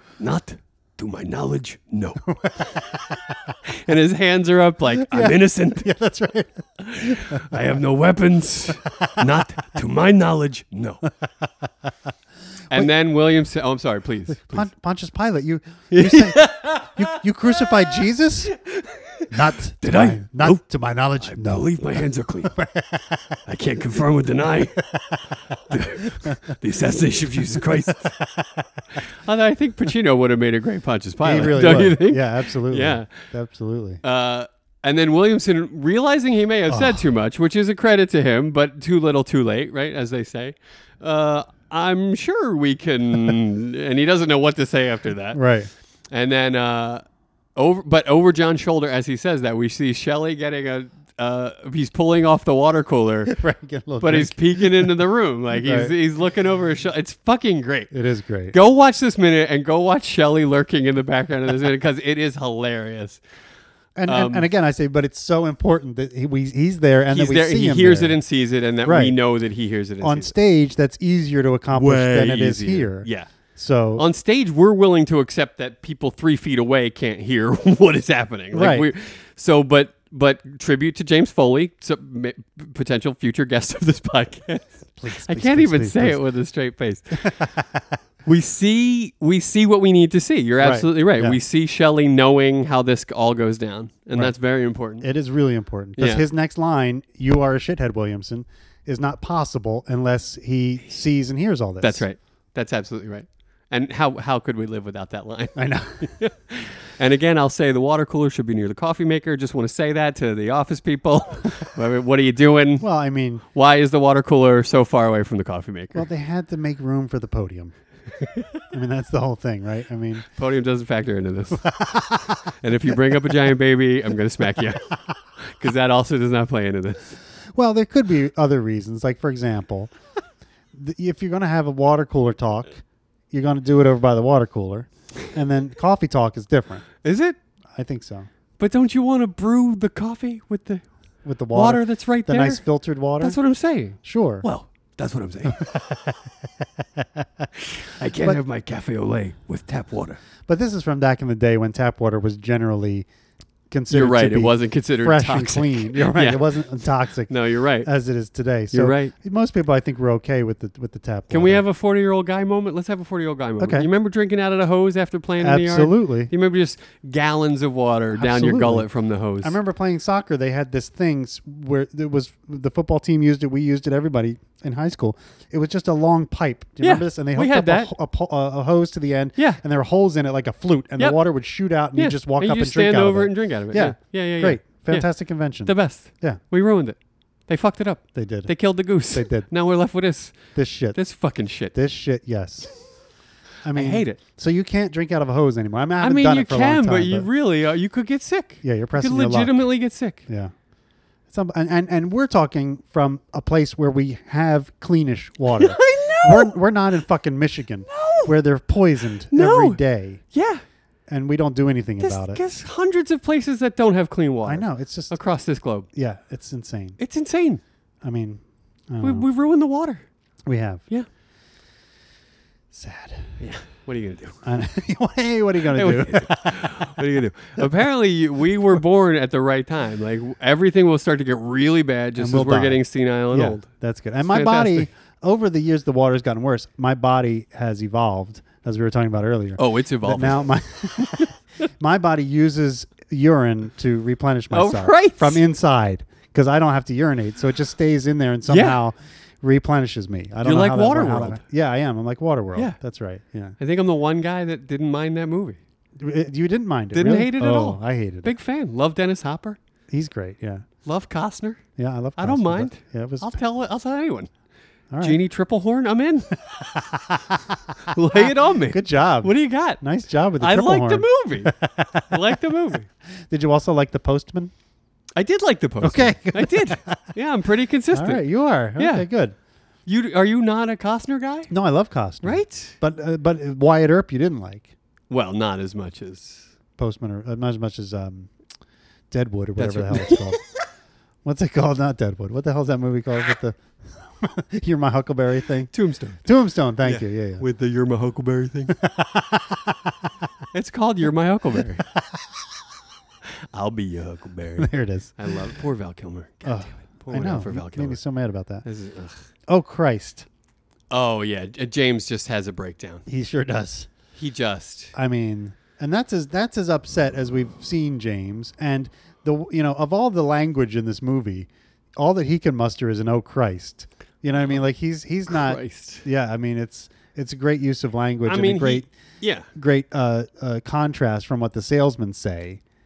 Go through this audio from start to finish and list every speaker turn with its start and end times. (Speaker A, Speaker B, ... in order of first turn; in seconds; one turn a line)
Speaker A: 0.2-2.3
Speaker B: 2.2-3.6
Speaker A: 3.6-5.9
Speaker B: 5.1-7.6
Speaker A: 6.8-11.1
Speaker B: 8.8-9.4
Speaker B: 11.3-11.9
Speaker A: 12.7-14.7
Speaker B: 14.4-18.5
Speaker A: 15.9-17.9
Speaker A: 18.5-20.6
Speaker B: 19.3-23.4
Speaker A: 21.2-22.5
Speaker A: 23.5-24.9
Speaker B: 24.8-26.6
Speaker A: 25.7-28.1
Speaker B: 27.6-29.0
Speaker A: 29.0-33.2
Speaker B: 31.2-34.0
Speaker A: 34.0-45.4
Speaker B: 36.7-37.1
Speaker B: 45.3-45.7
Speaker A: 46.1-47.0
Speaker A: 47.6-53.4
Speaker B: 53.3-54.9
Speaker A: 54.0-57.9
Speaker B: 55.5-55.9
Speaker B: 57.9-58.5
Speaker A: 58.5-63.2
Speaker B: 64.0-68.2
Speaker A: 64.1-64.5
Speaker A: 67.1-70.3
Speaker B: 68.8-69.2
Speaker B: 70.0-74.0
Speaker A: 71.7-73.3
Speaker A: 74.0-87.4
Speaker B: 78.5-78.9
Speaker B: 85.0-86.2
Speaker B: 87.2-87.8
Speaker A: 88.3-95.1
Speaker B: 90.6-91.4
Speaker B: 95.0-102.0
Speaker A: 96.0-96.2
Speaker A: 101.8-112.9
Speaker B: 105.6-106.1
Speaker B: 112.8-113.4
Speaker A: 113.5-116.1
Speaker B: 115.9-117.7
Speaker B: 118.7-120.3
Speaker A: 120.3-127.0
Speaker B: 121.6-122.9
Speaker B: 127.5-129.9
Speaker B: 130.7-136.8
Speaker A: 137.0-137.4
Speaker B: 137.8-138.3
Speaker A: 138.6-140.9
Speaker B: 141.2-143.4
Speaker A: 141.5-142.6
Speaker A: 143.2-145.7
Speaker B: 144.0-144.5
Speaker B: 145.5-146.2
Speaker B: 146.8-147.5
Speaker A: 147.6-150.2
Speaker B: 150.5-153.1
Speaker B: 153.7-157.3
Speaker A: 153.9-156.6
Speaker A: 157.3-157.9
Speaker B: 157.8-161.6
Speaker A: 158.7-159.1
Speaker A: 161.3-169.6
Speaker B: 163.6-163.9
Speaker B: 165.4-166.3
Speaker B: 168.1-168.9
Speaker B: 169.4-186.4
Speaker A: 176.8-177.9
Speaker A: 182.0-185.1
Speaker A: 185.7-191.7
Speaker B: 188.1-188.5
Speaker B: 189.1-189.5
Speaker B: 190.5-191.0
Speaker B: 191.7-192.7
Speaker B: 193.6-197.3
Speaker A: 193.8-194.2
Speaker A: 196.0-200.3
Speaker B: 198.6-199.6
Speaker B: 200.3-200.5
Speaker B: 201.3-210.2
Speaker A: 205.5-206.6
Speaker A: 207.9-208.3
Speaker A: 209.3-209.8
Speaker A: 210.3-210.6
Speaker B: 211.1-212.4
Speaker A: 212.0-215.9
Speaker B: 214.4-215.2
Speaker B: 215.9-217.0
Speaker A: 217.0-217.6
Speaker B: 218.0-219.3
Speaker A: 219.0-220.1
Speaker B: 220.5-220.8
Speaker B: 222.7-223.4
Speaker A: 223.4-224.4
Speaker B: 224.4-227.7
Speaker A: 225.7-233.7
Speaker B: 232.2-253.6
Speaker A: 234.2-234.9
Speaker A: 239.6-240.5
Speaker A: 244.5-245.4
Speaker A: 248.5-248.8
Speaker A: 250.4-251.4
Speaker A: 253.6-255.6
Speaker B: 256.0-258.3
Speaker A: 256.9-259.6
Speaker B: 259.9-260.6
Speaker A: 260.8-261.6
Speaker B: 261.8-263.4
Speaker A: 262.2-264.3
Speaker B: 264.9-265.2
Speaker A: 265.0-266.4
Speaker B: 266.5-272.4
Speaker A: 267.8-269.8
Speaker A: 270.4-271.5
Speaker A: 272.1-272.9
Speaker B: 273.3-274.5
Speaker A: 275.2-278.2
Speaker B: 275.8-277.1
Speaker B: 277.9-279.4
Speaker A: 278.8-279.1
Speaker A: 279.9-281.5
Speaker B: 281.5-284.7
Speaker A: 282.2-282.8
Speaker A: 285.1-286.5
Speaker B: 286.8-288.3
Speaker B: 289.1-290.4
Speaker A: 289.6-290.4
Speaker B: 291.2-295.7
Speaker A: 295.7-296.2
Speaker B: 296.2-297.4
Speaker A: 296.8-298.8
Speaker B: 298.7-300.0
Speaker A: 300.5-301.9
Speaker B: 301.8-302.3
Speaker A: 303.5-308.0
Speaker B: 304.6-305.3
Speaker B: 306.4-308.6
Speaker A: 308.6-309.2
Speaker B: 309.5-310.3
Speaker A: 310.9-313.1
Speaker B: 313.1-313.9
Speaker A: 314.2-314.9
Speaker B: 314.9-328.9
Speaker A: 325.3-326.0
Speaker A: 328.3-329.5
Speaker B: 329.5-332.6